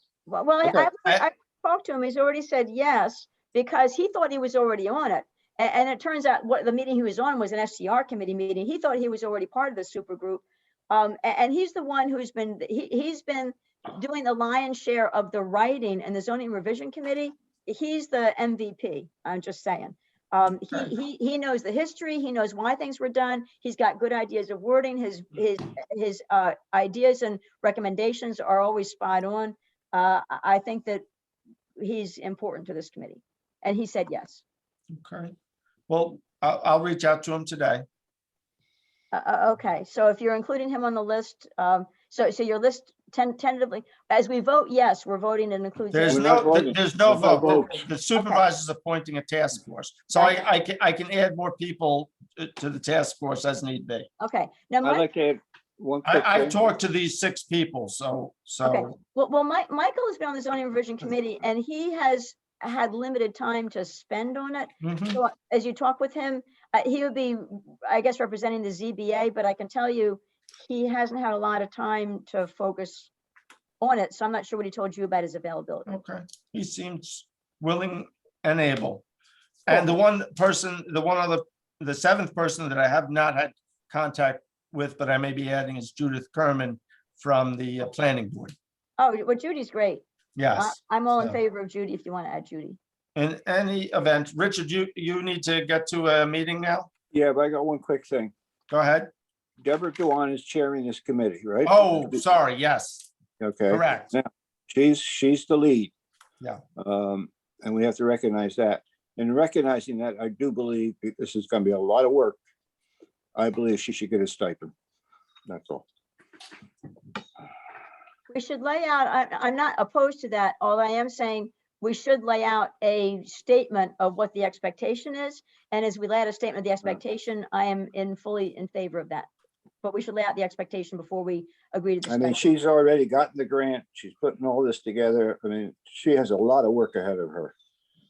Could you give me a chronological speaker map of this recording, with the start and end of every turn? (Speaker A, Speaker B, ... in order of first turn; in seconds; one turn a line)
Speaker A: 0.3-31.0
Speaker B: 0.6-0.9
Speaker A: 31.8-34.4
Speaker C: 34.9-35.3
Speaker C: 35.9-37.8
Speaker A: 39.1-46.6
Speaker C: 45.9-54.1
Speaker B: 46.1-47.8
Speaker A: 48.1-48.4
Speaker A: 50.1-50.4
Speaker A: 54.2-55.1
Speaker B: 54.8-56.6
Speaker C: 56.0-59.0
Speaker A: 58.6-73.1
Speaker C: 64.8-65.2
Speaker A: 73.8-75.9
Speaker C: 75.9-79.0
Speaker C: 79.7-88.5
Speaker A: 79.7-80.0
Speaker A: 89.0-90.0
Speaker C: 90.4-91.4
Speaker A: 90.5-92.8
Speaker C: 93.2-96.9
Speaker B: 97.1-98.3
Speaker C: 98.7-99.1
Speaker B: 99.6-102.2
Speaker C: 101.7-103.1
Speaker B: 103.4-105.9
Speaker C: 103.7-104.1
Speaker B: 106.8-112.4
Speaker B: 113.3-114.7
Speaker B: 115.5-115.8
Speaker A: 118.3-129.3
Speaker A: 129.8-132.5
Speaker B: 132.1-137.5